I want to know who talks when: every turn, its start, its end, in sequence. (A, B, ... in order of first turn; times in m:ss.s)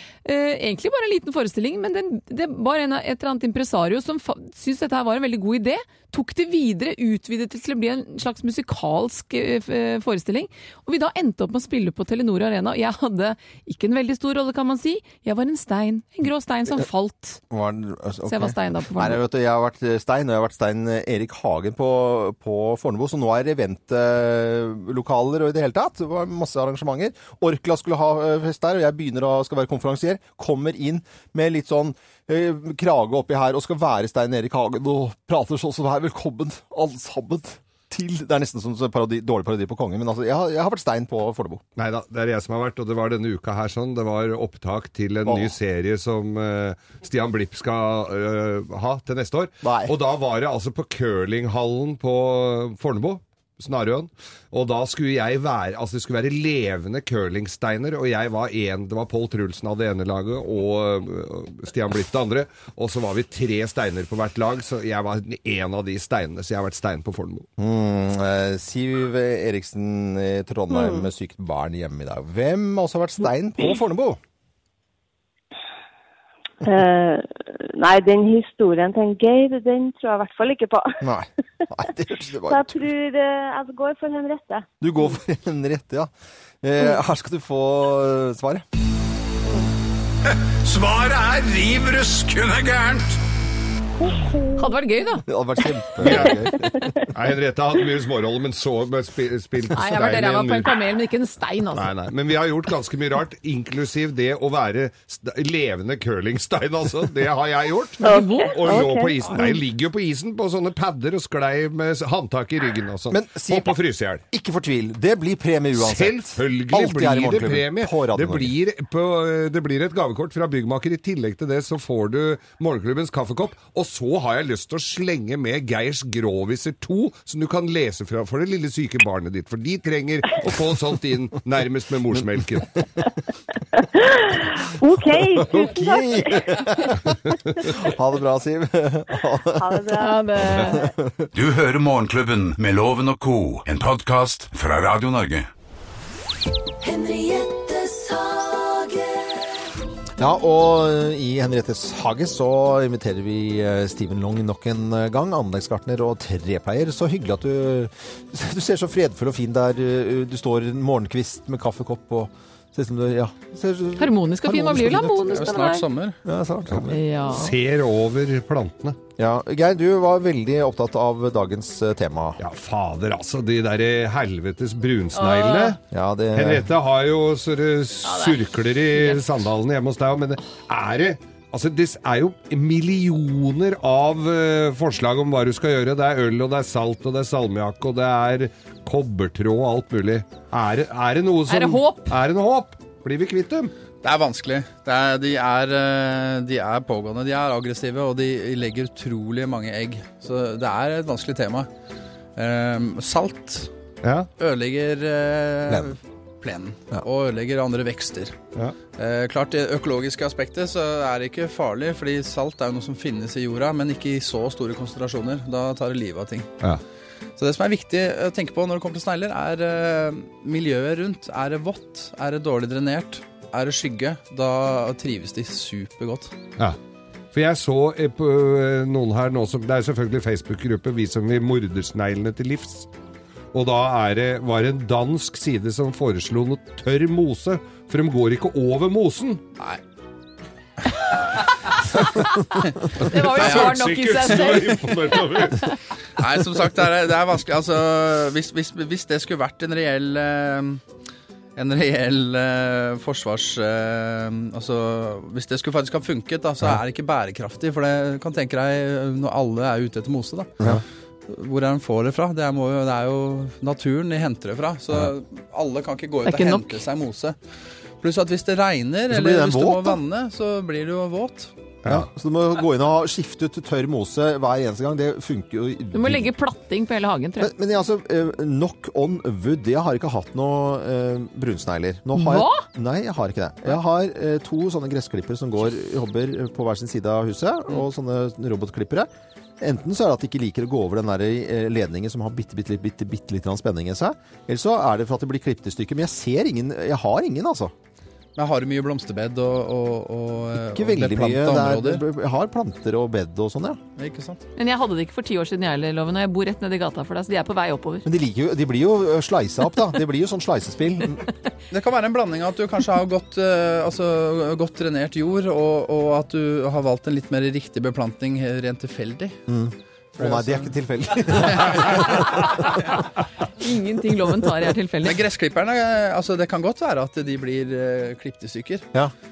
0:00.2-0:17.4 A
0:17.5-0:41.6 B
0:18.2-0:19.2 A
0:41.8-1:07.5 C
0:45.2-0:45.5 B
0:49.6-0:50.0 B
1:07.6-1:14.2 B
1:10.7-1:11.1 D
1:16.6-1:21.0 D
1:21.0-1:22.8 B
1:22.5-1:24.7 D
1:24.8-1:26.1 B
1:26.6-1:28.6 B
1:31.6-1:32.6 E
1:34.1-1:34.5 D
1:34.6-1:35.2 A
1:35.2-1:37.0 B
1:36.0-1:36.4 C
1:37.1-1:40.8 C
1:39.8-1:41.9 A
1:41.8-1:54.2 C
1:48.0-1:48.9 A
1:48.0-1:49.6 D
1:53.1-1:53.8 B
1:54.3-1:58.6 B
1:55.8-2:12.8 C
2:12.8-2:13.1 B
2:13.8-2:16.9 D
2:15.4-2:19.9 B
2:19.6-2:20.8 D
2:20.0-2:20.8 A
2:20.4-2:21.3 B
2:21.3-2:25.5 E
2:26.8-2:29.5 F
2:30.2-2:45.4 B
2:44.0-2:45.8 A
2:45.2-2:46.2 G
2:46.2-2:47.0 B
2:46.9-2:47.5 A
2:47.3-2:49.0 C
2:49.2-2:52.4 B
2:52.4-2:55.8 C
2:55.1-2:55.8 A
2:55.9-2:56.7 B
2:56.3-3:13.7 C
2:58.0-2:59.2 A
3:11.5-3:12.2 A
3:14.0-3:21.7 G
3:22.4-3:23.7 G
3:24.0-3:24.3 C
3:24.4-3:28.4 G
3:28.9-3:36.5 G
3:37.4-3:46.3 G
3:47.3-3:52.9 C
3:53.5-3:59.4 C
4:02.1-4:05.4 A
4:02.7-4:04.6 G
4:03.0-4:05.6 C
4:06.2-4:10.8 G
4:11.6-4:20.8 G
4:21.3-4:27.4 G
4:26.2-4:26.8 A
4:28.0-4:31.5 G
4:29.1-4:30.0 B
4:31.9-4:36.3 B
4:35.9-4:37.5 A
4:37.4-4:49.1 B
4:42.1-4:42.7 A
4:49.6-4:57.7 B
4:58.4-5:02.0 G
5:00.7-5:03.8 B
5:04.0-5:04.4 G
5:04.6-5:08.1 A
5:08.0-5:11.2 B
5:11.7-5:19.4 G
5:19.5-5:22.6 B
5:20.2-5:20.7 G
5:21.3-5:21.8 G
5:23.6-5:25.2 A
5:25.0-5:28.9 G